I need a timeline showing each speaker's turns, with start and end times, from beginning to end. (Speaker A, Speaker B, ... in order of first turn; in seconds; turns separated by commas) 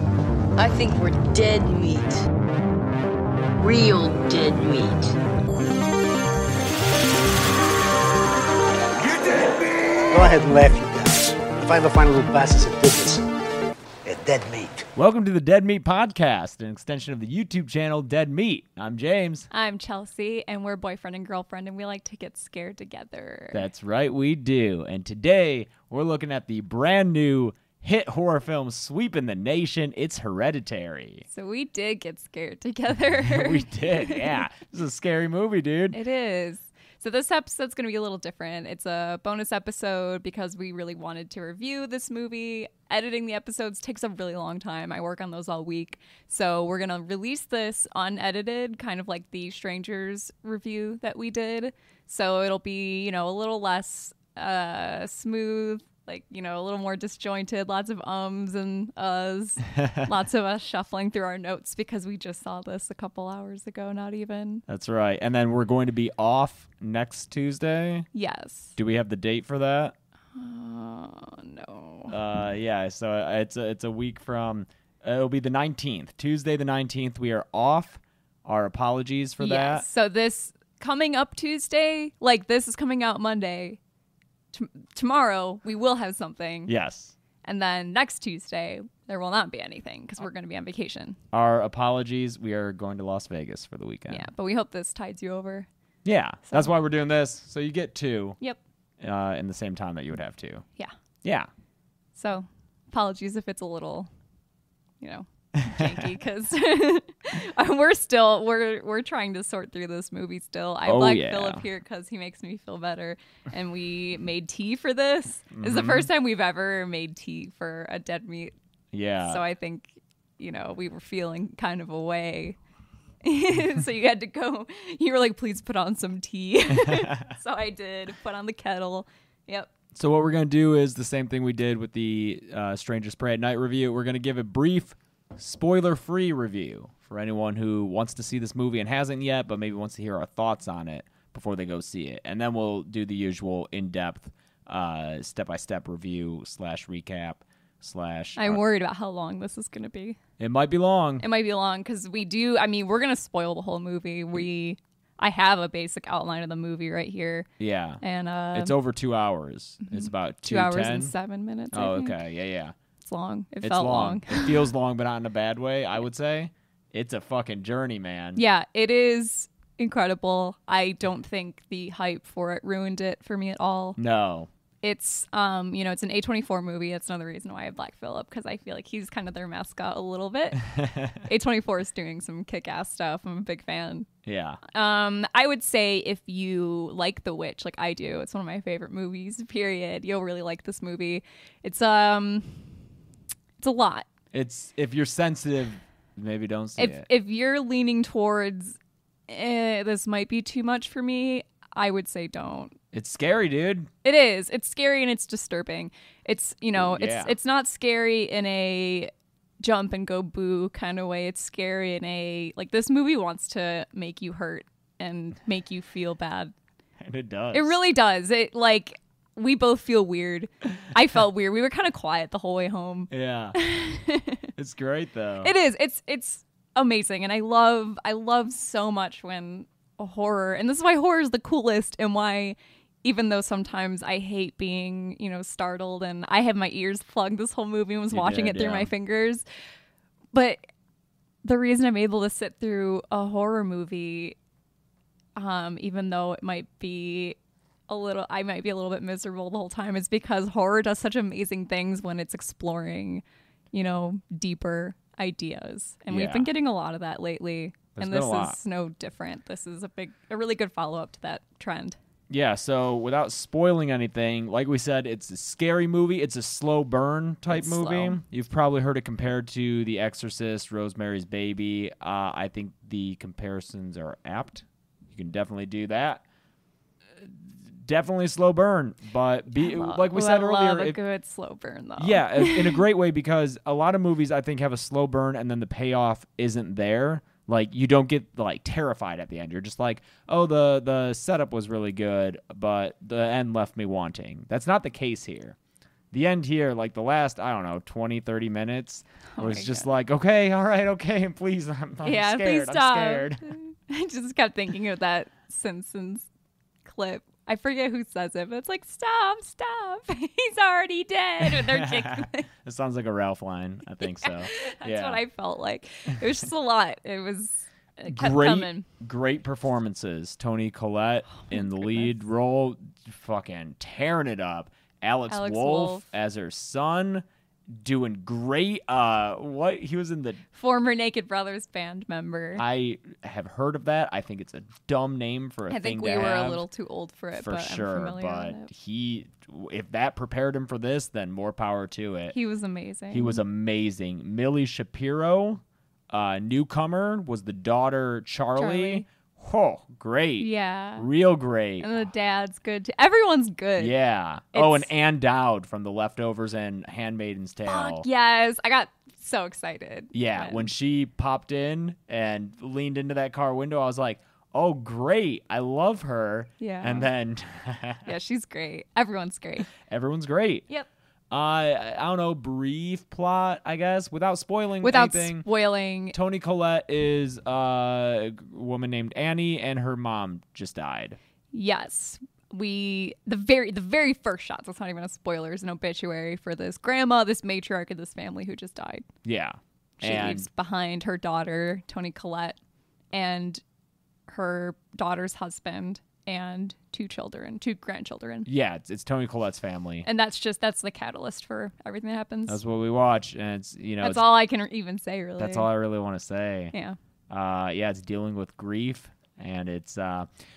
Speaker A: 0.6-2.3, Speaker A: 3.6-5.2, Speaker B: 9.0-13.2, Speaker B: 14.0-14.9, Speaker C: 14.9-19.5, Speaker D: 19.5-23.6, Speaker C: 23.5-31.2, Speaker D: 31.3-34.4, Speaker C: 33.2-36.0, Speaker D: 35.9-64.6, Speaker C: 64.7-68.1, Speaker D: 68.1-68.8, Speaker C: 68.8-69.9, Speaker D: 70.4-72.2, Speaker C: 72.1-79.9, Speaker D: 79.4-83.8, Speaker D: 84.5-86.7, Speaker C: 86.7-87.1, Speaker D: 87.4-91.2, Speaker C: 91.3-94.2, Speaker D: 94.1-95.7, Speaker C: 96.0-98.4, Speaker C: 99.0-100.6, Speaker C: 101.2-101.5, Speaker D: 102.2-104.1, Speaker D: 105.0-118.5, Speaker C: 105.6-106.0, Speaker C: 110.9-111.6, Speaker C: 115.5-116.1, Speaker C: 118.9-119.4, Speaker D: 119.2-122.6, Speaker D: 123.2-129.7, Speaker C: 126.8-127.2, Speaker C: 129.9-148.6, Speaker D: 148.4-150.2, Speaker C: 150.4-151.2, Speaker D: 151.2-157.5, Speaker C: 157.6-158.0, Speaker D: 158.0-158.7, Speaker C: 158.5-161.1, Speaker D: 159.8-162.2, Speaker C: 161.7-162.8, Speaker D: 163.0-164.7, Speaker C: 163.6-168.4, Speaker D: 168.3-174.0, Speaker C: 174.0-174.5, Speaker D: 174.8-184.1, Speaker C: 180.8-181.1, Speaker C: 184.2-184.6, Speaker D: 184.7-192.8, Speaker D: 193.6-194.1, Speaker C: 194.3-197.1, Speaker D: 196.8-202.8, Speaker C: 202.9-203.9, Speaker D: 204.0-216.5, Speaker C: 206.8-207.3, Speaker C: 217.0-217.8, Speaker D: 217.5-224.5, Speaker C: 223.1-223.6, Speaker C: 224.6-225.5, Speaker D: 225.4-239.4, Speaker C: 238.1-238.9, Speaker D: 240.3-240.7, Speaker D: 241.4-244.4, Speaker D: 245.4-247.3, Speaker D: 247.9-262.0, Speaker C: 256.1-256.5, Speaker C: 257.9-258.6, Speaker C: 262.3-276.2, Speaker D: 267.5-268.2, Speaker C: 277.2-281.0, Speaker D: 279.6-282.8, Speaker C: 282.0-295.6, Speaker C: 296.1-303.5, Speaker D: 299.4-299.9, Speaker D: 302.0-306.3, Speaker D: 306.9-312.5, Speaker C: 311.4-315.2, Speaker D: 314.0-318.9, Speaker C: 318.1-330.4, Speaker D: 321.4-322.1, Speaker D: 325.3-326.1, Speaker D: 330.5-332.6, Speaker C: 332.6-336.6, Speaker D: 335.7-338.7, Speaker C: 337.4-342.4, Speaker D: 342.3-343.4, Speaker C: 343.1-352.0, Speaker D: 348.6-349.1, Speaker D: 350.4-351.1, Speaker D: 351.8-353.9, Speaker C: 353.8-358.1, Speaker D: 354.5-354.9, Speaker D: 357.6-360.7, Speaker C: 360.1-368.1, Speaker D: 366.6-367.1, Speaker D: 368.1-369.7, Speaker C: 369.7-370.7, Speaker C: 371.3-375.4, Speaker D: 374.8-376.1, Speaker C: 376.1-381.2, Speaker D: 381.5-389.1, Speaker C: 389.2-390.5, Speaker D: 390.0-392.6, Speaker D: 393.1-393.6, Speaker D: 394.3-398.5, Speaker C: 398.4-400.1, Speaker D: 400.1-402.6, Speaker C: 402.5-404.3, Speaker D: 404.0-405.7, Speaker C: 405.4-406.7, Speaker C: 407.3-410.3